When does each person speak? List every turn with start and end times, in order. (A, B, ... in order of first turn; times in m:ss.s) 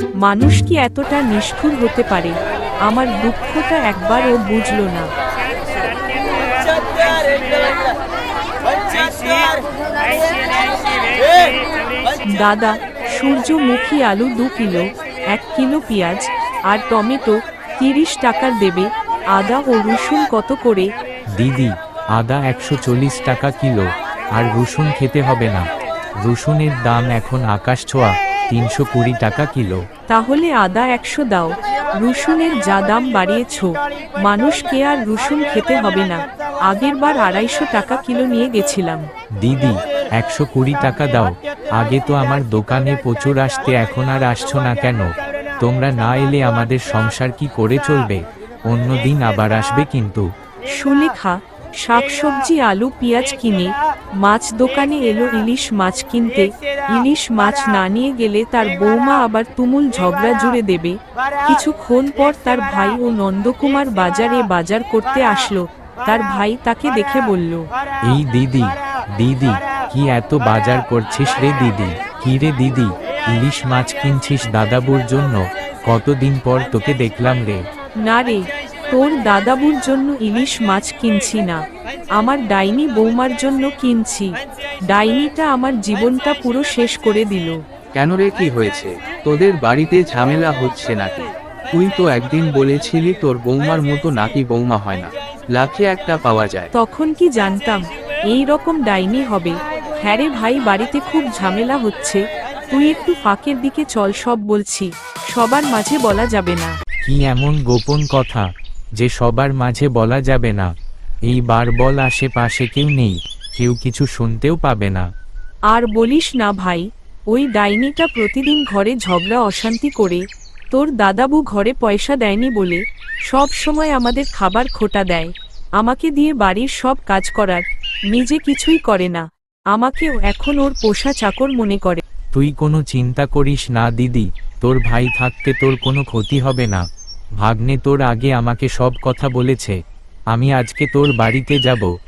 0:00.2-0:05.1 A
0:12.3-0:20.9 A
0:21.3-0:25.6 B
0:26.2-0:29.8 B
0:30.1-0:39.0 A
0:39.4-0:50.2 B
0:50.7-1:07.6 A
1:08.0-1:17.6 B
1:18.0-1:21.6 A
1:22.2-1:24.3 A
1:24.9-1:27.6 A
1:28.0-1:36.7 C
1:36.7-1:46.8 A
1:47.0-1:48.5 B
1:49.0-1:50.7 B
1:51.3-1:55.1 B
1:55.7-2:12.0 A
2:12.3-2:16.8 B
2:17.4-2:19.8 B
2:20.3-2:21.9 B